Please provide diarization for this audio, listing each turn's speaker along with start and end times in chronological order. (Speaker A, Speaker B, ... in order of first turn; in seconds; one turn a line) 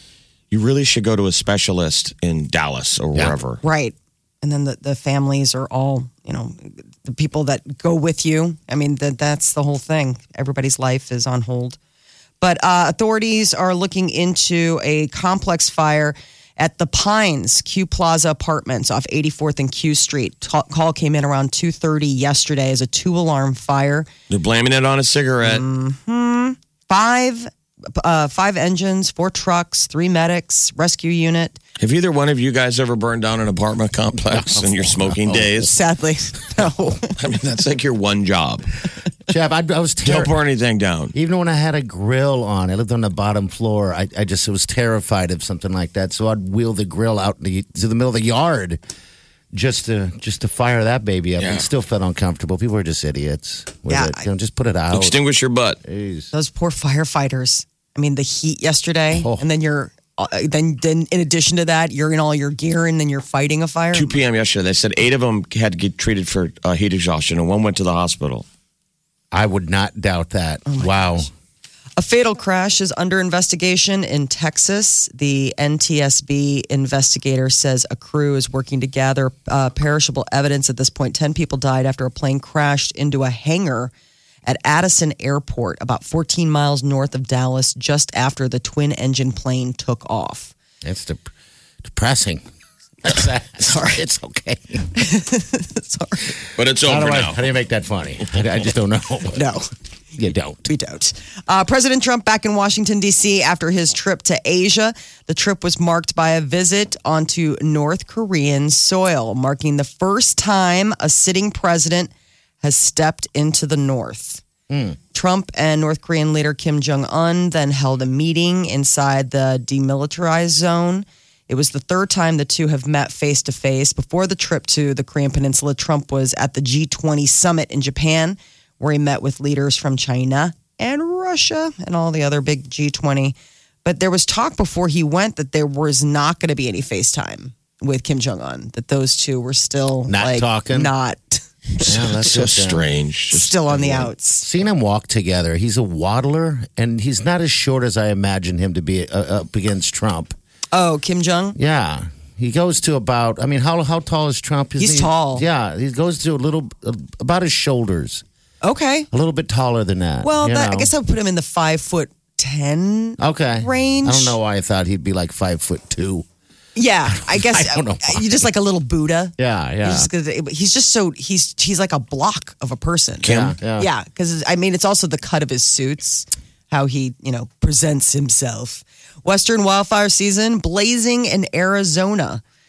Speaker A: 0.5-3.6
Speaker B: 3.6-11.8
Speaker B: 12.4-24.1
Speaker A: 24.3-25.6
Speaker B: 25.4-31.6
Speaker A: 31.8-35.7
Speaker C: 34.3-35.7
Speaker B: 35.6-37.1
Speaker A: 37.1-38.7
Speaker C: 39.3-40.3
Speaker A: 40.0-41.1
Speaker C: 41.1-48.8
Speaker C: 49.5-55.2
Speaker A: 51.4-51.7
Speaker B: 53.9-54.2
Speaker A: 54.9-55.8
Speaker C: 55.8-56.3
Speaker B: 56.3-64.2
Speaker C: 59.1-59.4
Speaker A: 63.9-68.5
Speaker C: 69.3-71.3
Speaker B: 70.7-71.3
Speaker B: 72.0-83.9
Speaker B: 84.4-90.5
Speaker C: 90.8-91.3
Speaker C: 91.8-92.4
Speaker C: 93.0-94.9
Speaker B: 93.6-94.0
Speaker B: 94.9-96.3
Speaker A: 96.5-97.4
Speaker C: 96.8-99.4
Speaker B: 99.3-99.7
Speaker C: 100.2-100.7
Speaker B: 100.7-114.4
Speaker C: 114.7-115.0
Speaker B: 115.1-141.9
Speaker C: 140.1-140.9
Speaker C: 141.8-142.9
Speaker A: 141.9-144.0
Speaker B: 143.3-144.4
Speaker C: 144.0-150.3
Speaker B: 150.7-151.6
Speaker C: 151.6-158.2
Speaker B: 154.8-155.4
Speaker B: 158.6-159.1
Speaker C: 159.1-160.9
Speaker B: 160.2-164.4
Speaker C: 163.2-166.2
Speaker B: 166.8-182.4
Speaker C: 167.1-168.4
Speaker C: 169.4-170.1
Speaker A: 173.2-173.6
Speaker C: 173.2-173.9